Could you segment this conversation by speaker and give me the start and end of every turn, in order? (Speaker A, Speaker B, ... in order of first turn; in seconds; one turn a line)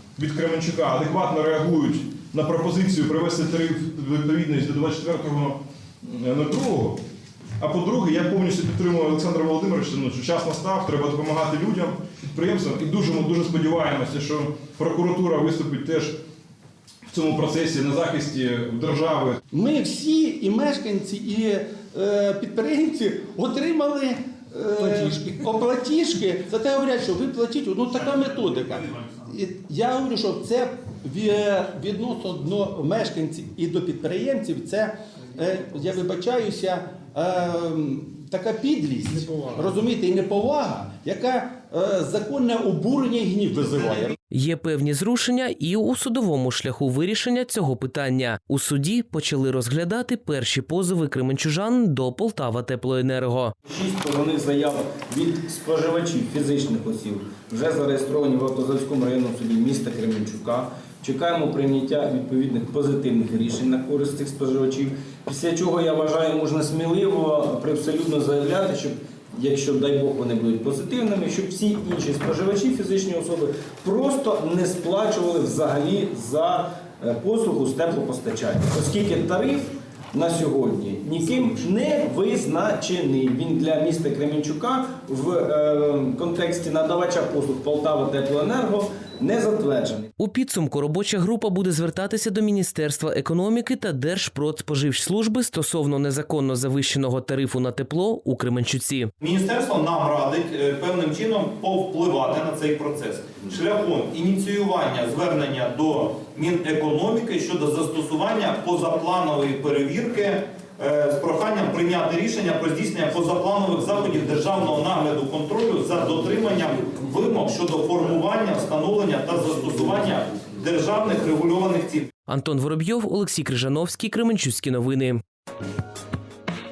Speaker A: 0.2-7.0
Speaker A: 7.6-16.2
Speaker A: 17.1-19.4
Speaker B: 19.5-44.1
Speaker C: 44.3-53.5
Speaker D: 53.6-90.1
Speaker C: 90.2-99.1
Speaker E: 99.2-122.1
Speaker C: 122.3-125.2